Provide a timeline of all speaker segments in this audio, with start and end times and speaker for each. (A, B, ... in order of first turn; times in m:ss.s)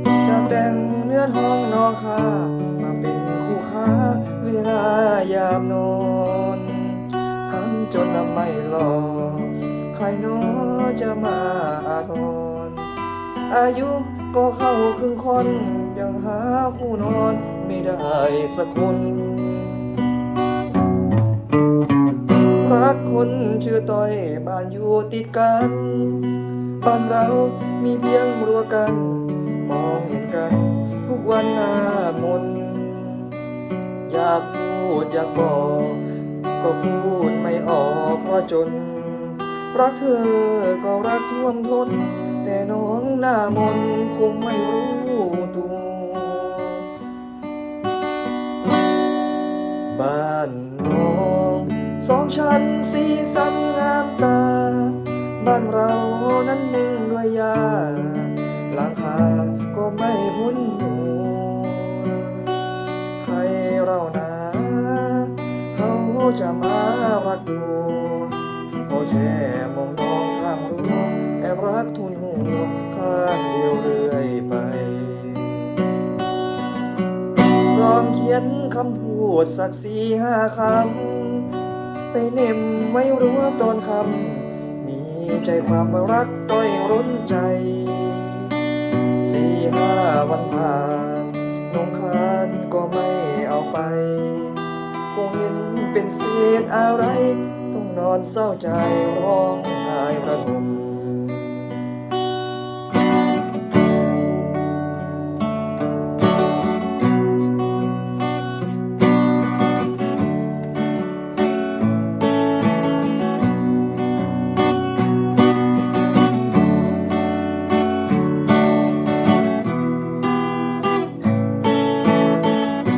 0:00.2-0:19.9 A
0:22.6-0:33.4 A
0:34.0-0:36.1 A
0:36.6-0:46.9 A
0:49.9-1:02.5 A
1:03.2-1:15.8 A
1:17.7-1:21.5 A
1:22.1-1:28.6 A
1:29.2-1:41.8 A